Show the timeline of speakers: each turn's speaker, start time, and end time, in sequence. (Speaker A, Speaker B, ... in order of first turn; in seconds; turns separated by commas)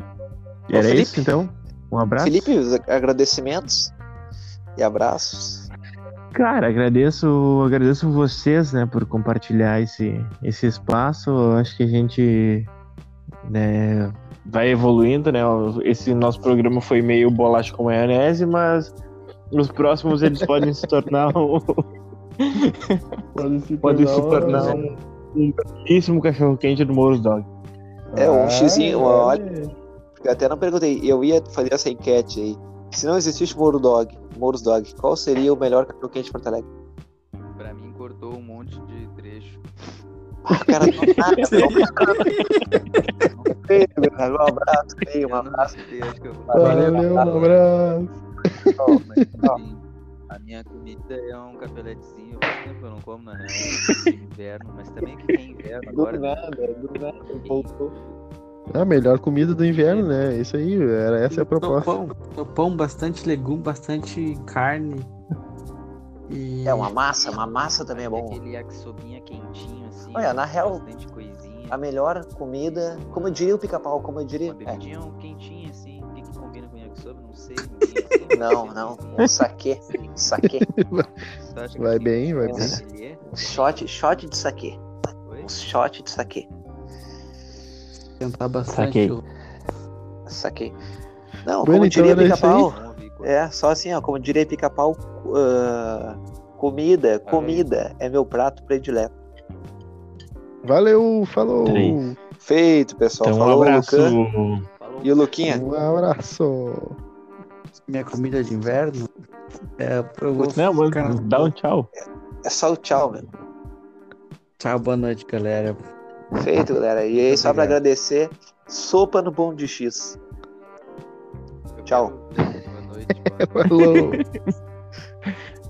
Speaker A: 0.7-2.5, Speaker B: 0.7-1.3, Speaker B: 2.2-3.9, Speaker B: 4.8-5.7, Speaker A: 6.3-12.7, Speaker A: 13.4-18.9, Speaker A: 19.5-21.8, Speaker A: 22.4-23.0, Speaker C: 23.3-24.9, Speaker A: 23.8-24.8, Speaker A: 25.3-27.5, Speaker C: 28.1-29.7, Speaker B: 28.1-29.4, Speaker B: 30.2-36.6, Speaker D: 37.6-39.6, Speaker B: 40.4-42.3, Speaker A: 42.0-42.5, Speaker B: 43.6-45.8, Speaker D: 45.2-47.5, Speaker B: 46.5-47.5, Speaker C: 46.5-49.5, Speaker E: 46.5-47.0, Speaker D: 48.9-56.4, Speaker A: 53.6-54.0, Speaker A: 55.9-57.7, Speaker B: 56.2-56.4, Speaker D: 57.2-58.1, Speaker C: 58.7-62.0, Speaker D: 59.6-60.1, Speaker E: 61.3-65.1, Speaker E: 66.3-66.9, Speaker B: 66.6-68.4, Speaker D: 67.8-71.8, Speaker B: 70.1-70.8, Speaker B: 71.7-74.8, Speaker D: 72.6-73.5, Speaker D: 74.4-80.3, Speaker B: 78.3-80.7, Speaker C: 80.4-81.1, Speaker D: 81.4-83.8, Speaker C: 81.8-82.8, Speaker B: 82.4-84.8, Speaker D: 85.3-85.5, Speaker B: 85.4-86.5, Speaker E: 88.2-89.2, Speaker A: 88.7-89.2, Speaker B: 90.3-90.7, Speaker B: 91.4-99.1, Speaker C: 91.6-92.7, Speaker D: 92.2-93.4, Speaker D: 97.2-97.7, Speaker C: 100.6-102.2, Speaker A: 101.7-102.0, Speaker B: 102.4-104.2, Speaker A: 103.2-104.7, Speaker D: 104.8-105.3, Speaker B: 105.0-105.6, Speaker C: 105.4-107.0, Speaker E: 107.9-109.1, Speaker E: 109.8-111.5, Speaker A: 110.4-111.9, Speaker B: 112.4-113.2, Speaker E: 114.6-115.8, Speaker B: 116.3-120.2, Speaker E: 117.2-117.8, Speaker D: 121.7-123.9, Speaker B: 121.9-122.1, Speaker C: 123.4-124.2, Speaker A: 123.7-124.5